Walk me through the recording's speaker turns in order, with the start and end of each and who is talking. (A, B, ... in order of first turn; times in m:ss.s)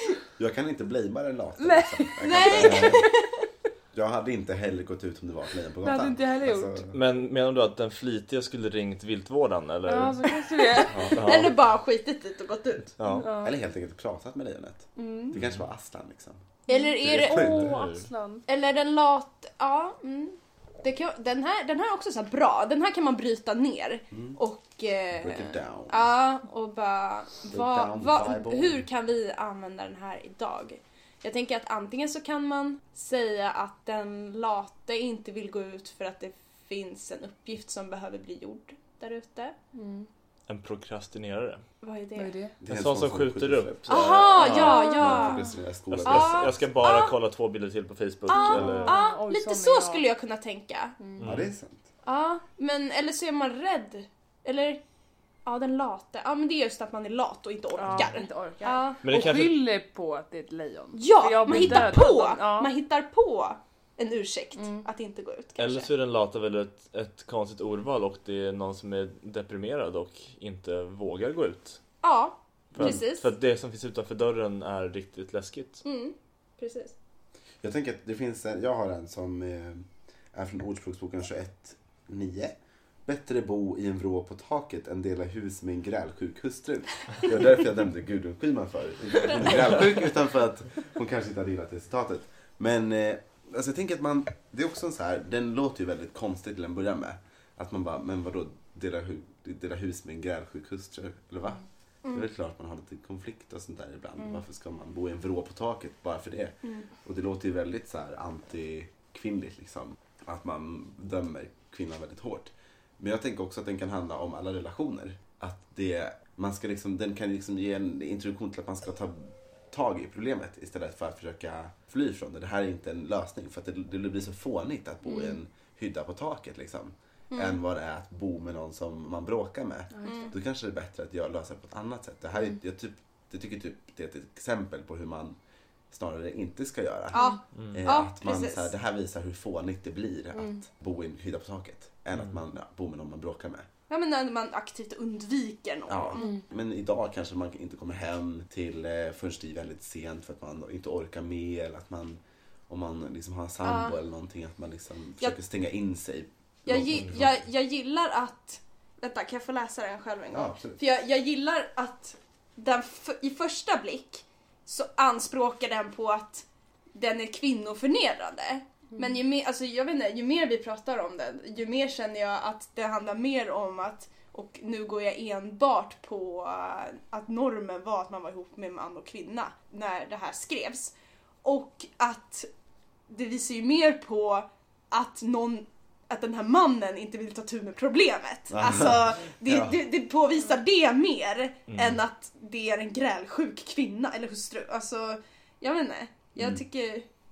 0:00.4-0:03.1 A
0:01.6-0:02.8 B
0:02.2-0:03.4 C
0:03.9-0:07.0 A
0:05.8-0:06.8 B
0:06.9-0:10.3 D
0:09.9-0:11.1 B
0:10.6-0:13.0 C
0:10.9-0:11.5 A
0:11.1-0:11.6 D
0:13.0-0:13.3 D
0:13.1-0:13.6 B
0:13.4-0:16.4 A
0:15.0-0:15.4 B
0:16.7-0:17.6 C
0:16.7-0:18.4 B
0:17.0-0:18.1 D
0:17.1-0:17.7 A
0:18.5-0:39.6 C
0:24.1-0:24.4 A
0:25.1-0:26.1 A
0:27.5-0:28.8 A
0:39.7-0:40.1 B
0:40.5-0:41.6 D
0:41.8-0:42.3 C
0:42.2-0:42.6 B
0:42.6-0:46.6 A
0:42.7-0:45.1 D
0:43.9-0:45.4 C
0:44.7-0:45.3 B
0:45.9-0:49.0 D
0:46.0-0:47.2 C
0:48.3-0:51.0 C
0:48.3-0:50.0 B
0:51.0-0:51.3 B
0:51.2-0:51.5 D
0:51.2-0:51.8 A
0:52.0-0:54.8 C
0:55.4-0:59.0 C
0:57.8-1:02.7 B
0:59.0-0:59.6 D
1:00.9-1:05.9 C
1:04.6-1:04.8 B
1:05.6-1:11.8 D
1:12.0-1:13.3 C
1:12.7-1:15.8 D
1:15.8-1:17.0 C
1:17.6-2:15.4 A
2:07.3-2:07.6 C
2:10.0-2:10.3 B
2:10.0-2:10.3 C
2:15.9-2:17.2 A
2:17.1-2:18.7 C
2:17.6-2:17.8 D
2:17.7-2:23.7 A
2:23.9-2:26.4 C
2:25.9-2:37.3 A
2:33.6-2:34.0 C
2:36.7-3:02.5 C
2:40.3-2:40.8 A
3:03.1-3:17.1 C
3:08.5-3:09.8 A
3:11.7-3:12.0 D